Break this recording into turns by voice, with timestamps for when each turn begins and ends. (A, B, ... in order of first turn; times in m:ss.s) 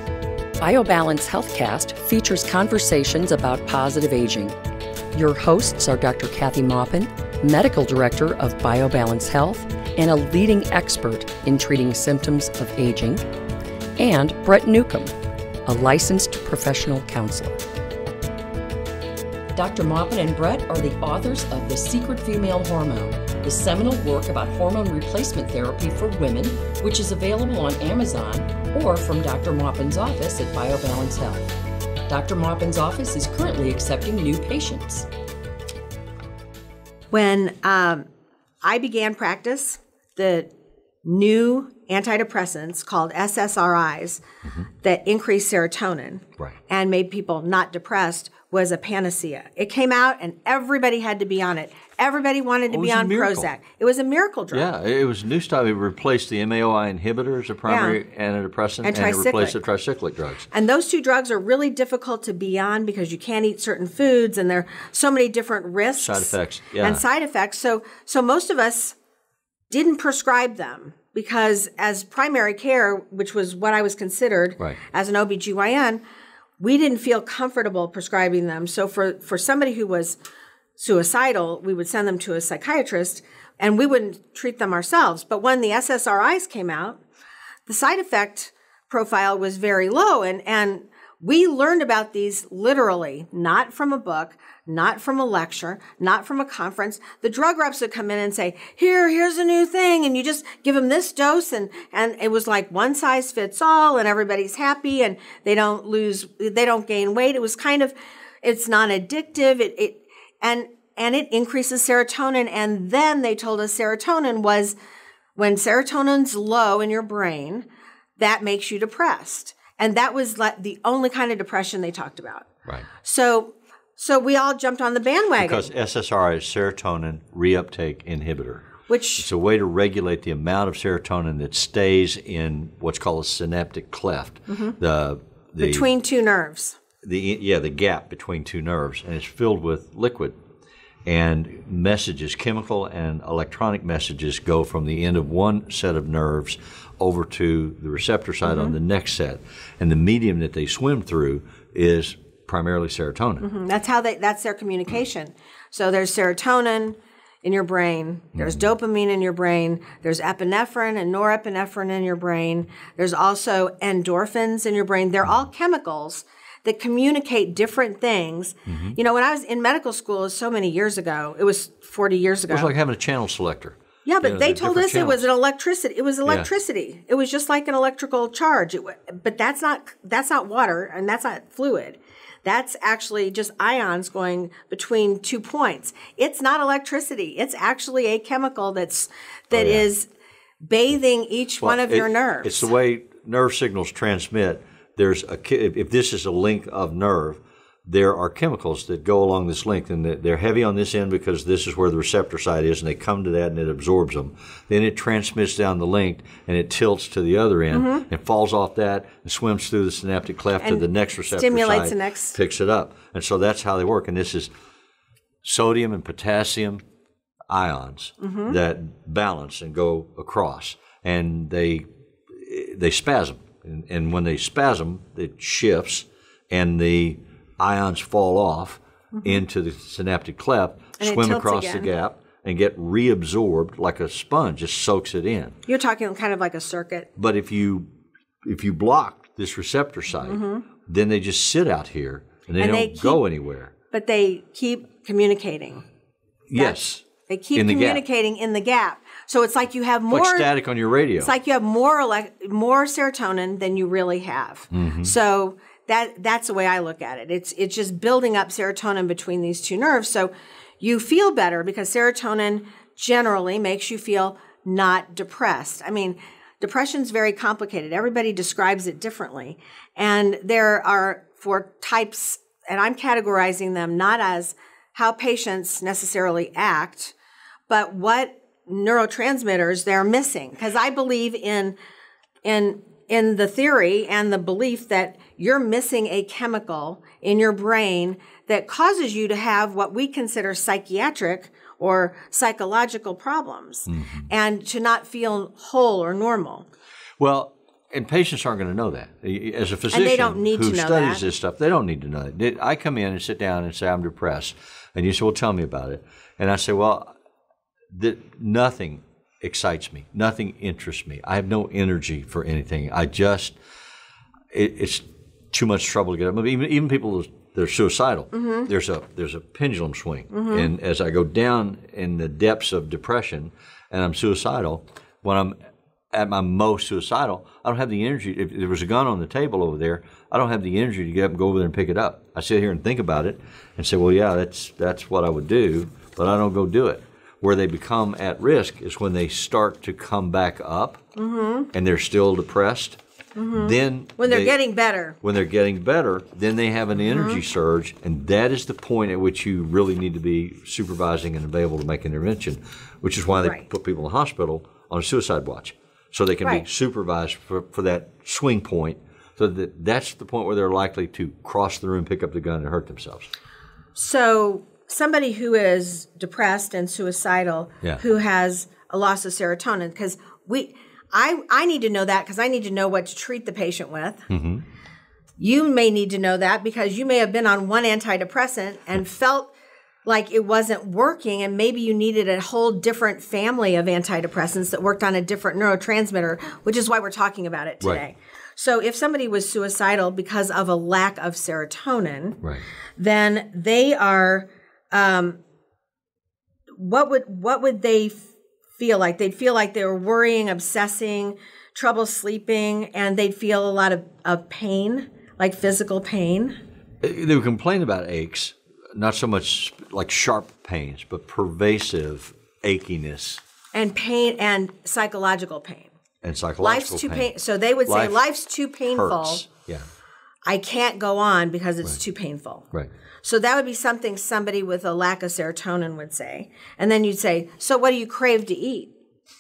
0:00.6-0:04.6 A
0:05.1-0:13.2 A
0:14.0-0:15.1 A
0:15.7-0:17.6 A
0:19.5-0:31.5 A
0:32.1-0:35.1 A
0:37.1-0:38.1 B
0:38.6-0:40.5 B
0:41.0-0:44.2 B
0:44.4-0:44.7 C
0:44.8-0:54.7 B
0:52.7-0:53.5 C
0:54.5-1:00.5 C
0:57.7-0:58.0 B
0:58.8-0:59.6 B
1:00.5-1:09.0 B
1:06.0-1:07.0 C
1:09.7-1:16.0 B
1:16.6-1:20.2 B
1:20.8-1:27.0 B
1:27.7-1:54.8 B
1:55.4-1:57.7 B
1:58.2-2:02.5 B
2:03.0-2:05.7 B
2:05.4-2:15.9 C
2:08.9-2:09.3 B
2:15.6-2:16.8 B
2:17.0-2:20.4 C
2:21.1-2:33.5 C
2:28.4-2:28.8 B
2:33.4-2:52.7 B
2:48.7-2:49.0 C
2:52.5-2:55.3 C
2:54.0-3:10.1 B
3:09.5-3:09.9 C
3:10.6-3:12.7 B
3:11.6-3:34.5 C
3:27.7-3:28.0 B
3:30.6-3:32.4 B
3:35.4-3:36.8 C
3:37.5-3:55.6 C
3:38.2-3:38.6 B
3:49.2-3:49.4 B
3:51.0-3:51.9 B
3:55.7-3:57.1 B
3:57.2-3:57.9 C
3:58.4-4:03.7 C
4:00.2-4:00.7 B
4:02.6-4:03.2 B
4:03.9-4:05.8 B
4:06.5-4:07.0 C
4:06.6-4:10.5 B
4:07.6-4:08.0 C
4:10.1-4:11.3 C
4:11.2-4:37.1 B
4:14.7-4:15.1 C
4:37.7-4:41.8 B
4:42.4-4:56.7 B
4:53.9-4:54.3 C
4:57.2-5:07.1 C
4:59.9-5:01.3 B
5:07.9-5:13.6 C
5:14.5-5:25.6 C
5:18.3-5:18.7 B
5:20.3-5:20.7 B
5:26.1-5:41.0 C
5:41.2-5:41.7 B
5:41.7-5:43.0 C
5:43.4-5:45.2 B
5:43.5-5:44.6 C
5:45.2-6:03.3 C
5:47.0-5:47.4 B
6:04.0-6:14.3 B
6:14.3-6:14.6 C
6:15.4-6:19.5 B
6:20.1-6:32.4 B
6:33.0-6:35.4 B
6:36.8-6:38.2 B
6:38.8-6:46.6 B
6:47.0-6:53.4 C
6:53.7-6:55.9 B
6:56.2-6:57.3 C
6:56.6-6:59.4 B
6:57.9-6:58.2 C
6:58.9-6:59.9 C
7:00.5-7:02.7 B
7:03.2-7:08.9 B